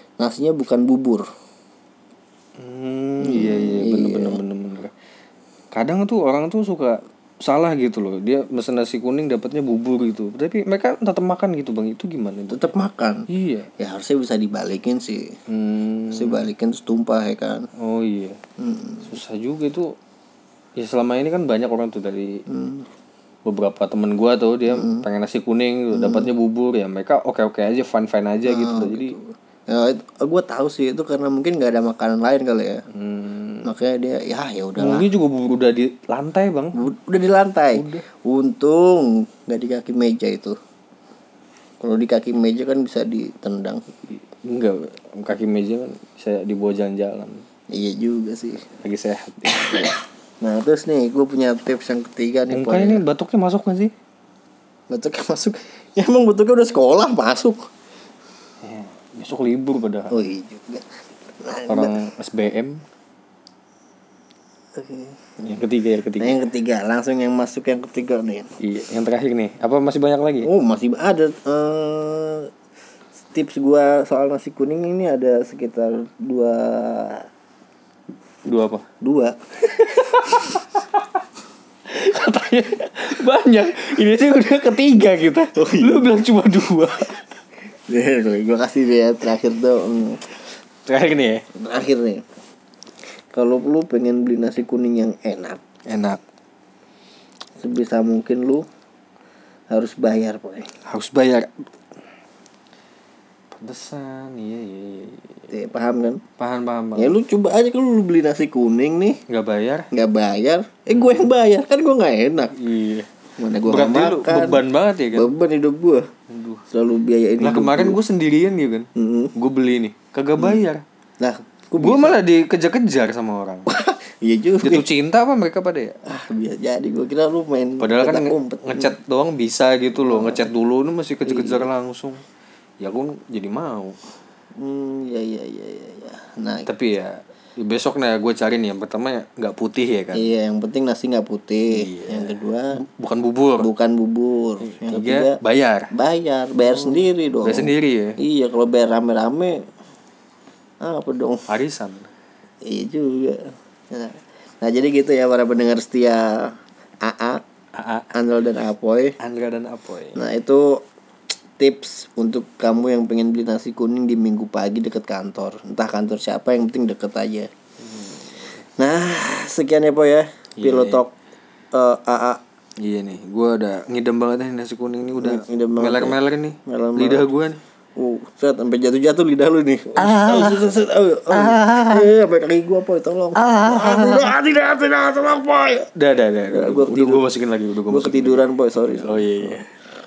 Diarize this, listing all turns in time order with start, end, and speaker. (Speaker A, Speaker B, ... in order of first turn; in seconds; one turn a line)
Speaker A: 0.2-1.3
Speaker B: 2.6-4.9
Speaker A: 3.2-4.4
Speaker B: 5.7-12.7
Speaker A: 12.5-13.3
Speaker B: 13.3-13.7
Speaker A: 13.8-15.3
Speaker B: 15.5-16.5
Speaker A: 16.1-17.7
Speaker B: 17.8-18.4
Speaker A: 18.6-19.1
Speaker B: 19.0-19.9
Speaker B: 20.8-22.4
Speaker A: 22.5-22.9
Speaker B: 23.4-29.2
Speaker A: 24.7-25.1
Speaker A: 25.9-26.3
Speaker A: 28.4-32.8
Speaker B: 32.9-33.7
Speaker A: 33.6-35.1
Speaker B: 34.8-36.8
Speaker A: 36.8-40.6
Speaker B: 37.8-38.0
Speaker A: 41.8-43.8
Speaker B: 44.0-47.4
Speaker A: 47.7-48.6
Speaker B: 48.8-49.9
Speaker A: 49.6-53.0
Speaker B: 52.5-53.9
Speaker A: 54.9-57.7
Speaker B: 58.6-60.1
Speaker A: 60.1-60.9
Speaker A: 61.4-62.0
Speaker B: 61.7-62.8
Speaker A: 64.8-65.4
Speaker B: 65.4-66.4
Speaker A: 66.2-68.5
Speaker B: 68.6-70.5
Speaker A: 70.4-72.5
Speaker A: 73.3-77.3
Speaker B: 78.5-78.8
Speaker A: 79.0-80.2
Speaker B: 79.9-81.2
Speaker B: 81.9-87.4
Speaker A: 85.5-86.1
Speaker A: 87.9-90.2
Speaker B: 90.8-91.5
Speaker A: 91.5-92.2
Speaker A: 93.3-95.6
Speaker B: 95.9-96.2
Speaker A: 97.6-98.7
Speaker A: 99.7-100.7
Speaker B: 100.9-101.5
Speaker B: 103.5-105.5
Speaker A: 105.5-106.2
Speaker B: 106.4-107.2
Speaker A: 107.0-109.2
Speaker B: 109.3-109.9
Speaker A: 109.9-112.6
Speaker B: 110.9-111.2
Speaker B: 112.6-113.1
Speaker A: 113.4-114.6
Speaker B: 113.7-115.3
Speaker A: 115.2-116.0
Speaker B: 116.3-116.7
Speaker A: 116.7-118.0
Speaker B: 117.4-120.8
Speaker A: 119.0-119.3
Speaker A: 121.2-122.2
Speaker B: 121.8-123.7
Speaker A: 123.7-124.9
Speaker B: 124.6-126.0
Speaker A: 126.0-128.9
Speaker B: 127.8-132.2
Speaker A: 130.0-130.5
Speaker A: 131.3-131.7
Speaker B: 132.8-134.0
Speaker A: 134.6-136.7
Speaker B: 136.7-140.3
Speaker A: 140.1-142.8
Speaker B: 141.7-143.7
Speaker A: 143.6-145.4
Speaker B: 144.6-145.9
Speaker A: 145.9-149.7
Speaker B: 146.6-148.2
Speaker A: 150.8-151.5
Speaker B: 151.5-152.1
Speaker A: 152.6-157.4
Speaker B: 157.8-158.1
Speaker A: 158.1-159.2
Speaker B: 159.2-160.2
Speaker A: 160.2-160.8
Speaker A: 161.6-167.5
Speaker A: 168.8-171.1
Speaker B: 170.6-171.0
Speaker A: 171.7-172.4
Speaker B: 172.8-177.6
Speaker A: 175.2-177.3
Speaker A: 178.0-185.9
Speaker B: 180.0-180.7
Speaker B: 181.3-182.1
Speaker B: 183.3-184.3
Speaker B: 185.9-188.4
Speaker A: 186.5-187.2
Speaker A: 187.9-189.6
Speaker B: 189.0-189.7